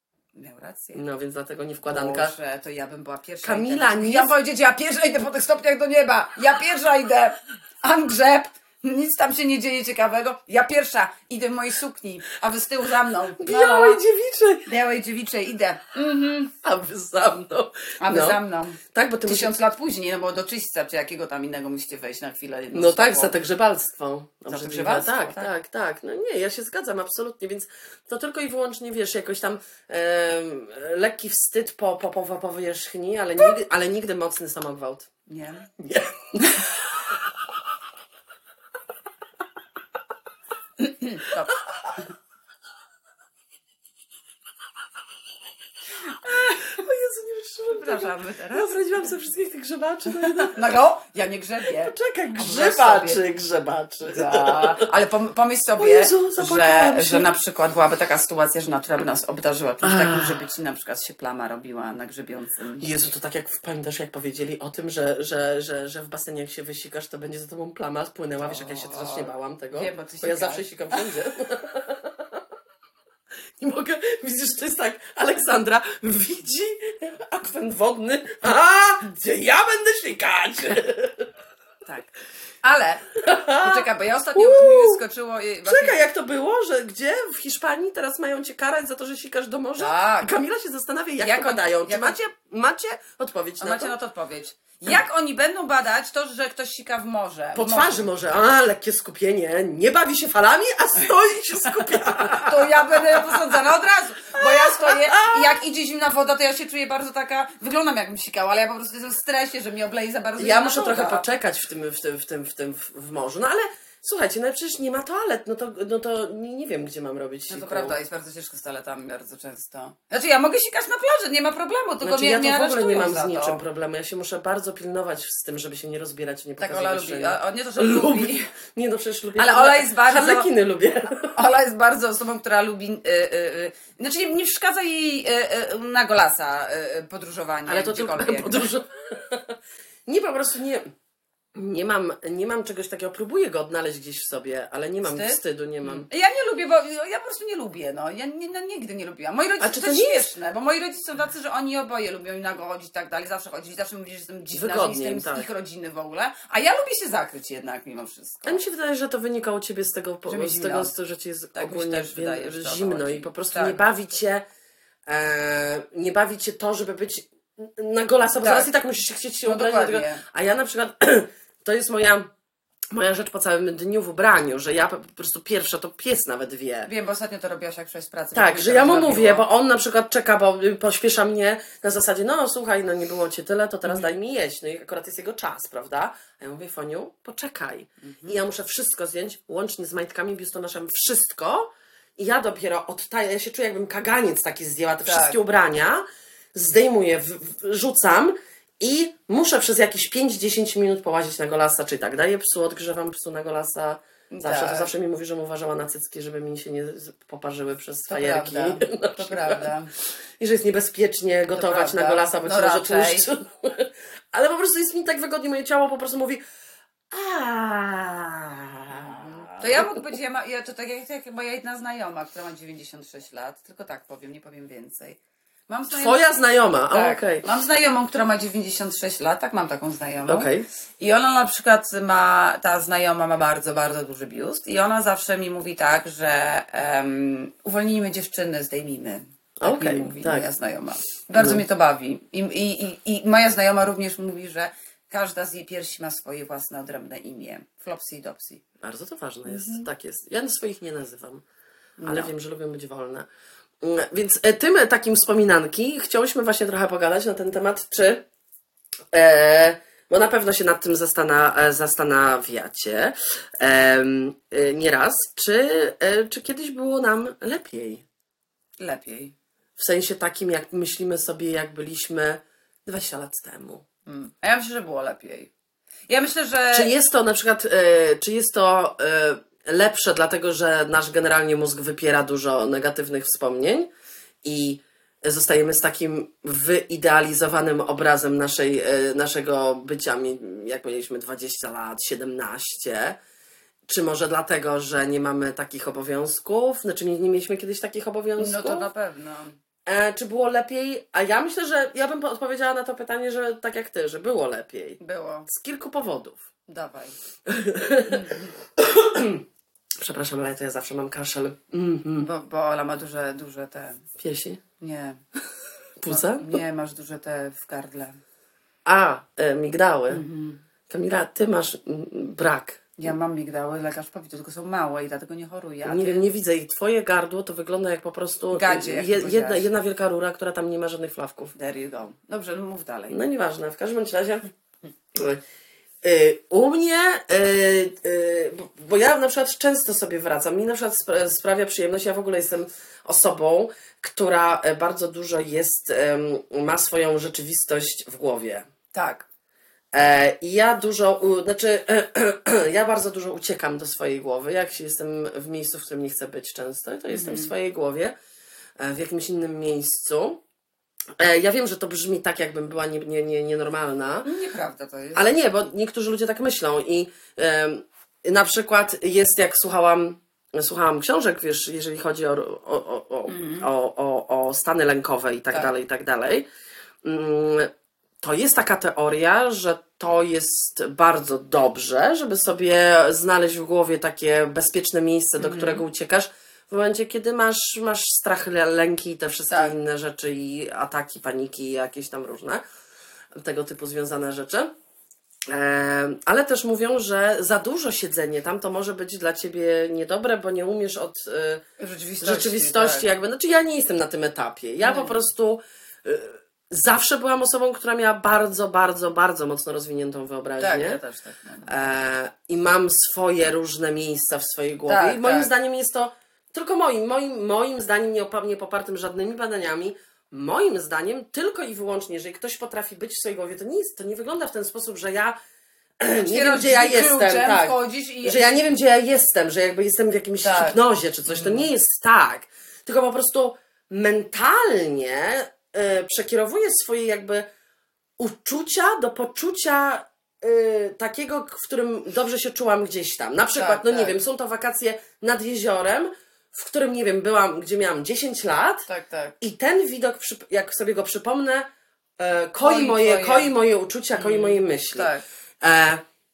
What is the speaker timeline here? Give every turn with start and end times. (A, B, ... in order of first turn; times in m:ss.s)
0:00.3-0:01.0 A
0:00.9-0:02.3 B
0:01.8-0:14.0 A
0:03.4-0:04.3 B
0:13.4-0:14.7 B
0:14.6-0:16.5 A
0:16.6-0:18.4 B
0:18.0-0:23.4 A
0:18.9-0:19.5 B
0:22.7-0:35.1 B
0:24.5-0:25.5 A
0:35.3-0:35.7 A
0:35.8-0:36.7 B
0:36.4-0:36.6 A
0:40.8-0:41.5 A
0:46.2-0:46.6 A
0:46.6-0:50.6 B
0:47.7-0:48.8 A
0:50.1-0:53.2 A
0:51.6-0:54.9 B
0:54.0-1:02.8 A
0:55.8-0:57.3 B
0:59.8-1:00.4 B
1:02.8-1:12.4 B
1:08.4-1:11.1 A
1:13.6-1:21.3 B
1:22.6-1:26.0 A
1:23.2-1:25.0 B
1:25.6-1:33.9 B
1:29.8-1:30.3 A
1:31.2-1:32.2 A
1:33.6-1:38.1 A
1:37.6-1:43.6 B
1:42.2-1:51.2 A
1:44.3-1:45.6 B
1:50.4-1:58.0 B
1:57.5-2:03.6 A
2:02.0-2:11.3 B
2:06.6-2:08.5 A
2:09.4-2:10.5 A
2:11.3-2:18.6 A
2:17.7-2:20.9 B
2:21.5-2:26.1 B
2:25.0-2:38.6 A
2:29.6-2:30.3 B
2:34.5-2:35.5 B
2:38.4-2:44.4 B
2:40.3-2:40.9 A
2:41.5-2:43.8 A
2:45.1-2:52.3 B
2:48.4-2:48.7 A
2:49.4-2:50.2 A
2:52.9-2:56.9 B
2:56.8-2:59.4 A
2:58.3-3:29.7 B
3:08.0-3:08.4 A
3:15.0-3:15.4 A
3:24.3-3:24.9 A
3:28.1-3:29.9 A
3:30.4-3:36.4 B
3:31.5-3:33.2 A
3:37.1-3:40.2 B
3:39.6-3:46.3 A
3:45.9-3:47.4 B
3:46.9-4:08.6 A
3:50.3-3:50.7 B
3:59.6-4:00.5 B
4:01.4-4:01.6 B
4:08.8-4:11.4 B
4:09.5-4:09.9 A
4:12.0-4:12.3 A
4:12.0-4:13.3 B
4:13.8-4:18.2 B
4:19.1-4:28.0 B
4:28.8-4:29.3 A
4:29.8-4:33.8 B
4:34.0-4:35.5 A
4:36.1-4:36.9 A
4:36.7-4:43.9 B
4:44.4-4:53.2 B
4:53.9-4:58.9 B
4:58.4-4:59.6 A
4:59.8-5:06.4 B
5:05.0-5:05.5 A
5:06.7-5:07.2 A
5:07.4-5:09.4 B
5:08.1-5:08.5 A
5:10.0-5:12.3 B
5:12.2-5:14.0 A
5:14.2-5:14.6 B
5:14.8-5:15.2 A
5:16.0-5:16.6 B
5:16.1-5:18.2 A
5:18.8-5:20.2 B
5:20.1-5:20.6 A
5:20.9-5:22.8 B
5:23.0-5:26.2 A
5:25.8-5:31.5 B
5:28.5-5:29.7 A
5:31.6-5:33.2 A
5:33.1-5:34.5 B
5:35.1-5:35.4 B
5:36.0-5:48.7 B
5:48.9-5:49.2 A
5:49.9-5:58.1 B
5:57.1-5:57.5 A
5:58.8-6:00.4 B
6:01.2-6:04.3 B
6:04.2-6:05.3 A
6:05.1-6:16.5 B
6:13.3-6:13.7 A
6:17.0-6:17.7 B
6:18.2-6:32.6 B
6:25.4-6:25.8 A
6:33.4-6:34.7 B
6:35.5-6:41.6 B
6:41.8-6:43.1 A
6:42.2-6:51.0 B
6:44.8-6:45.2 A
6:50.6-6:51.7 A
6:51.6-7:05.4 B
6:54.9-6:55.5 A
7:06.0-7:17.5 B
7:06.2-7:08.7 A
7:10.4-7:10.8 A
7:11.3-7:11.7 A
7:18.2-7:28.9 B
7:23.6-7:24.2 A
7:28.9-7:29.3 A
7:29.4-7:31.7 B
7:32.2-7:36.0 B
7:32.6-7:33.5 A
7:34.1-7:35.2 A